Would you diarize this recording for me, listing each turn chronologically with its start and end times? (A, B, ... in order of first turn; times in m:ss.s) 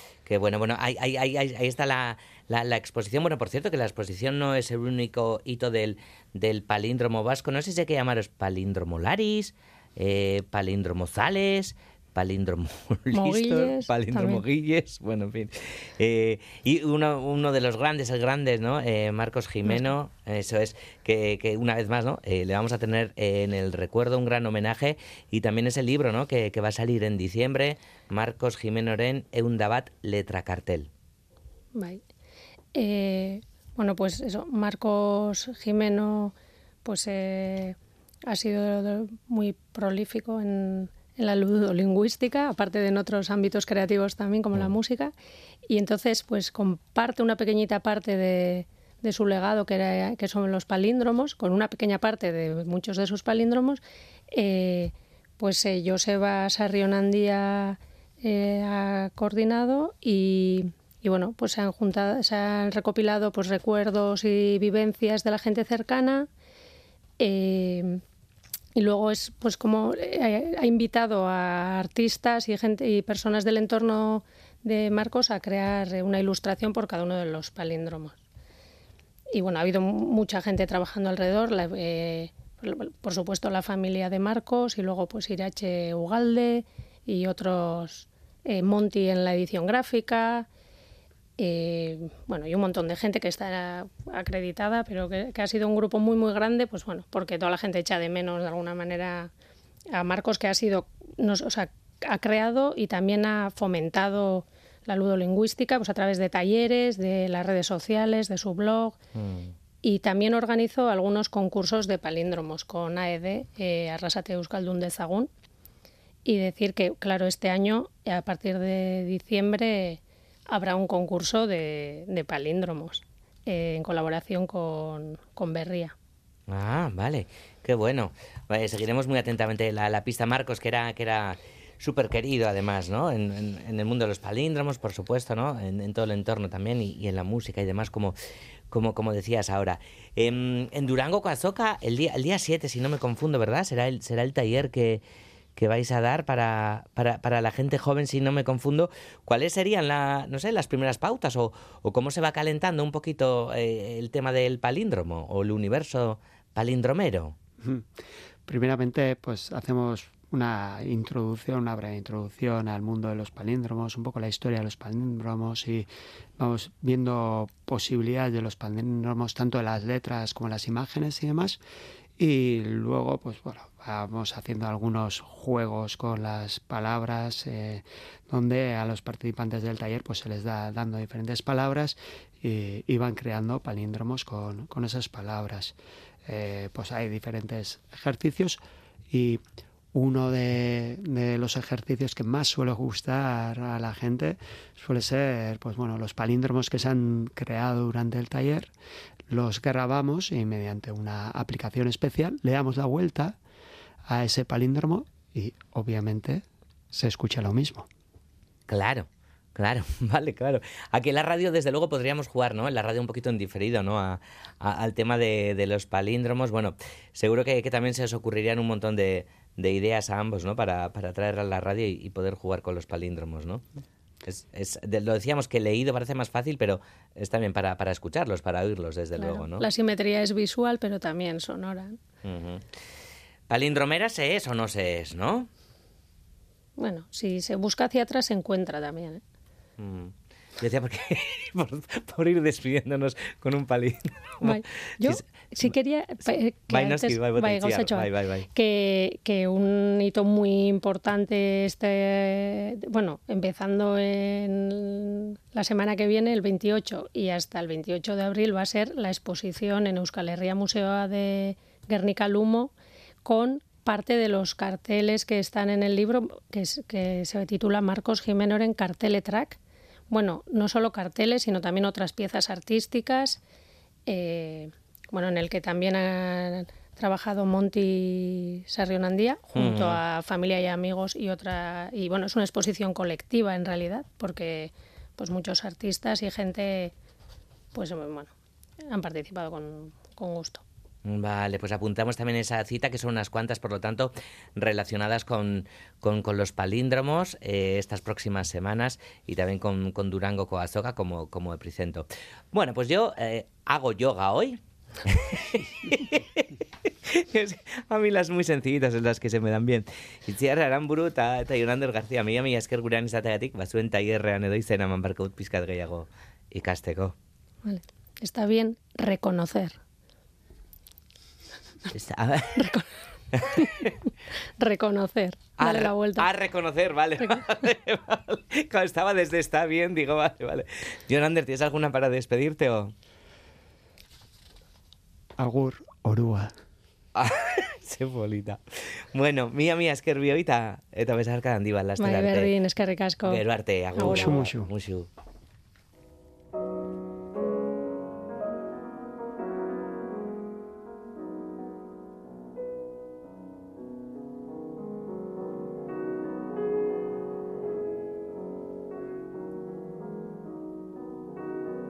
0:00.3-0:30.9 A
0:13.1-0:14.4 B
0:31.8-0:32.0 B
0:32.8-0:45.1 B
0:45.7-0:53.8 B
0:54.3-1:06.3 B
1:07.2-1:08.0 B
1:08.8-1:18.2 B
1:19.3-1:30.5 B
1:31.4-1:39.3 B
1:39.9-1:49.0 B
1:49.2-1:49.6 A
1:49.8-1:55.3 B
1:56.3-2:06.0 B
2:06.5-2:18.2 A
2:18.7-2:25.0 A
2:25.6-2:37.4 A
2:37.6-2:37.9 C
2:38.5-2:51.6 C
2:52.2-3:09.4 C
3:09.9-3:18.7 C
3:19.3-3:23.4 C
3:24.1-3:27.9 C
3:28.7-3:43.6 A
3:44.3-3:49.7 A
3:49.2-3:52.0 B
3:52.2-3:52.6 A
3:53.5-3:55.5 A
3:56.8-3:59.2 B
3:59.8-4:05.7 A
4:04.4-4:22.7 B
4:06.7-4:08.5 A
4:23.2-4:29.6 B
4:30.1-4:33.4 B
4:34.1-4:46.9 B
4:39.6-4:40.0 A
4:47.7-4:48.3 B
4:48.9-4:50.6 B
4:51.0-5:06.5 A
5:07.1-5:17.2 A
5:17.6-5:19.8 B
5:21.9-5:22.6 A
5:22.6-5:22.8 B
5:23.4-5:23.9 A
5:23.5-5:23.9 B
5:24.6-5:26.3 B
5:25.6-5:32.9 A
5:35.4-5:36.5 C
5:37.2-5:42.5 A
5:42.0-5:43.4 B
5:43.3-5:45.1 A
5:44.0-5:44.3 B
5:44.0-5:44.7 C